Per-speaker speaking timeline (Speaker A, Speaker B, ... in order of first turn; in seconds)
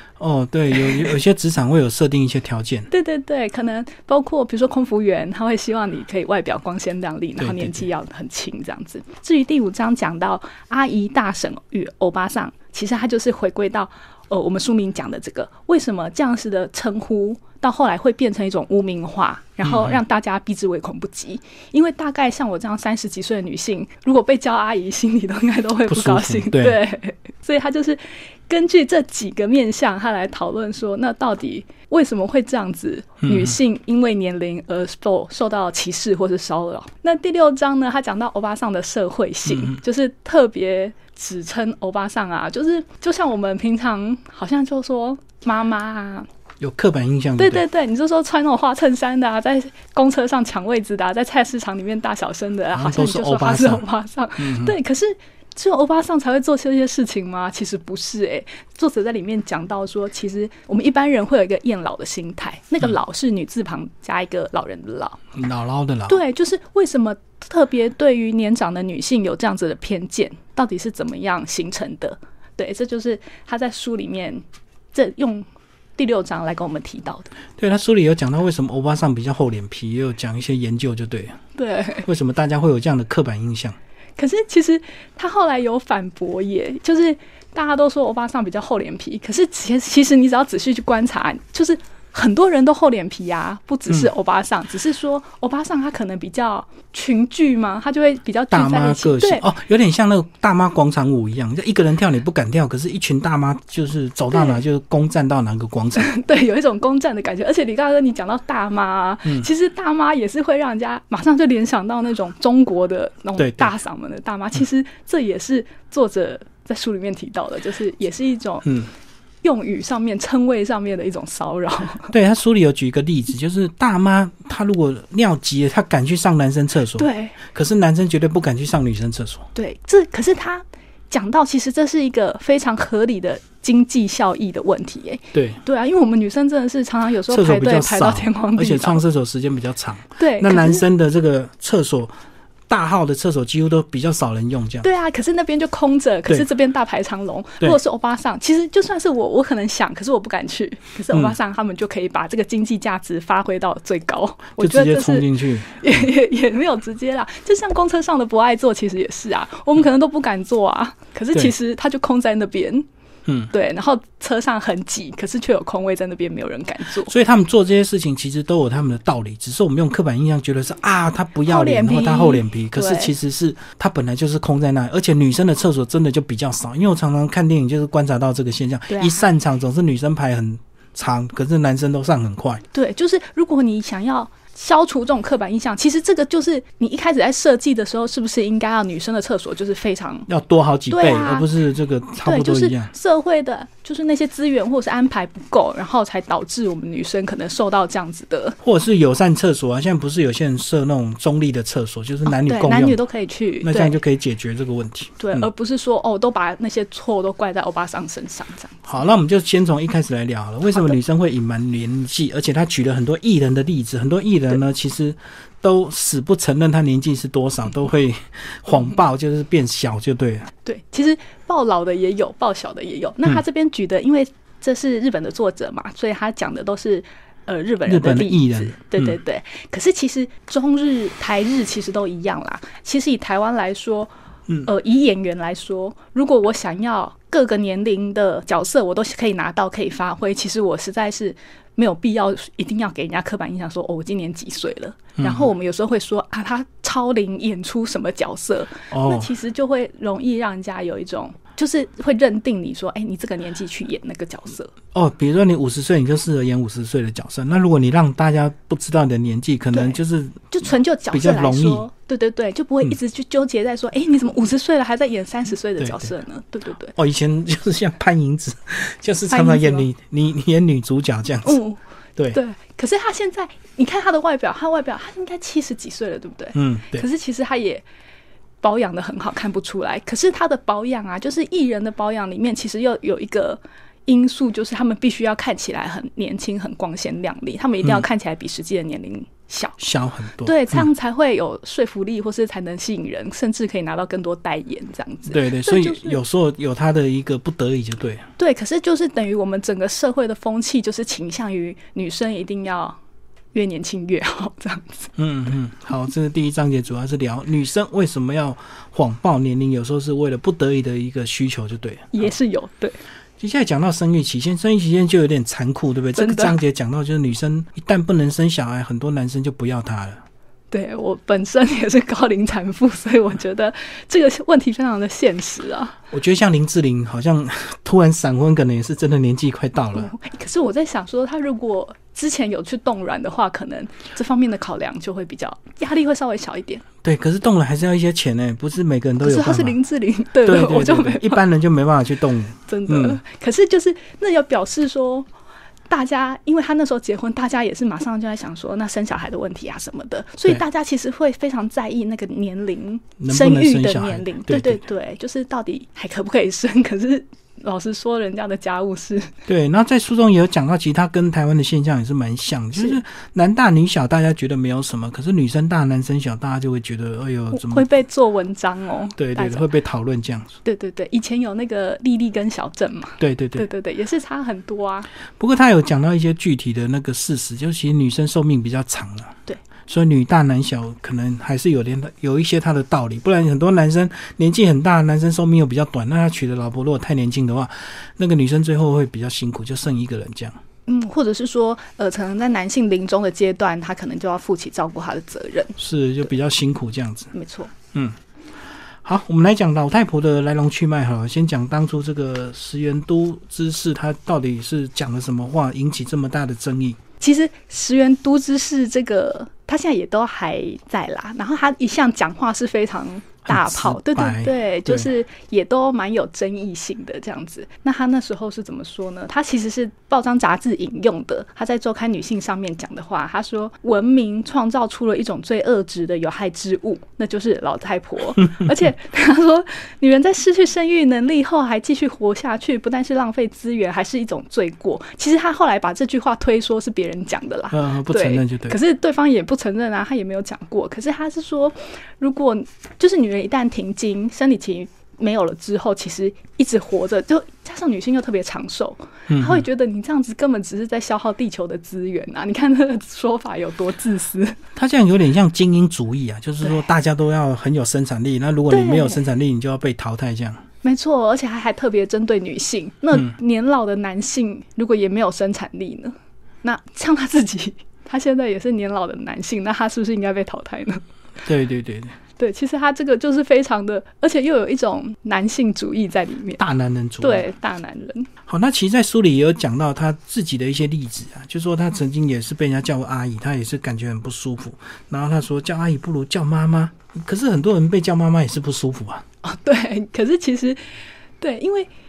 Speaker A: 0.2-2.9, 7.4-7.9, 19.6-20.0, 25.9-26.8, 33.2-33.6, 39.5-39.8, 46.6-47.6, 52.7-53.8, 54.4-54.8, 65.3-66.2, 77.6-81.4, 82.0-83.8, 98.5-106.1, 113.4-113.7, 122.1-129.5, 135.3-135.6, 137.3-142.1, 142.7-144.9, 154.6-156.0, 167.0-182.6, 190.3-192.9, 198.6-203.0, 203.6-205.5, 208.8-220.5, 227.9-229.2, 245.2-245.5, 248.9-249.3, 254.9-260.6, 261.1-261.9, 265.8-266.1, 266.9-271.6, 276.6-277.1, 289.8-290.9, 295.3-298.3, 305.2-312.3, 313.4-320.2, 326.1-330.1, 337.0-339.8, 340.4-343.2, 353.2-354.8, 359.5-367.9, 369.2-370.6, 373.2-373.7, 375.4-390.6, 395.8-397.3, 397.9-398.2, 399.0-407.0, 413.5-415.1, 437.7-438.8, 449.3-449.6, 454.8-460.6, 471.4-472.2, 476.6-477.5, 478.5-489.2
Speaker B: 2.9-46.3, 47.4-65.2, 66.1-74.4, 74.9-77.3, 81.6-82.1, 84.2-99.5, 104.3-104.6, 106.0-118.7, 119.4-122.1, 127.0-127.4, 129.6-139.0, 140.2-140.8, 144.8-162.9, 163.5-167.1, 171.5-173.1, 178.9-179.2, 182.7-190.3, 190.9-191.5, 192.2-198.6, 202.3-204.0, 205.2-209.0, 210.7-211.0, 220.7-234.1, 234.6-254.7, 259.7-260.0, 260.5-266.9, 269.3-269.9, 271.4-271.8, 272.3-277.9, 278.6-289.8, 290.4-296.2, 298.4-303.0, 303.5-305.1, 312.1-313.0, 316.2-316.6, 320.7-326.0, 329.9-336.9, 339.2-341.4, 342.7-345.3, 345.9-359.3, 367.5-369.7, 370.6-375.1, 390.9-395.8, 397.3-397.8, 407.2-454.6, 458.7-459.2, 460.8-471.0, 472.4-476.6, 477.2-478.3, 489.4-490.8, 491.4-491.9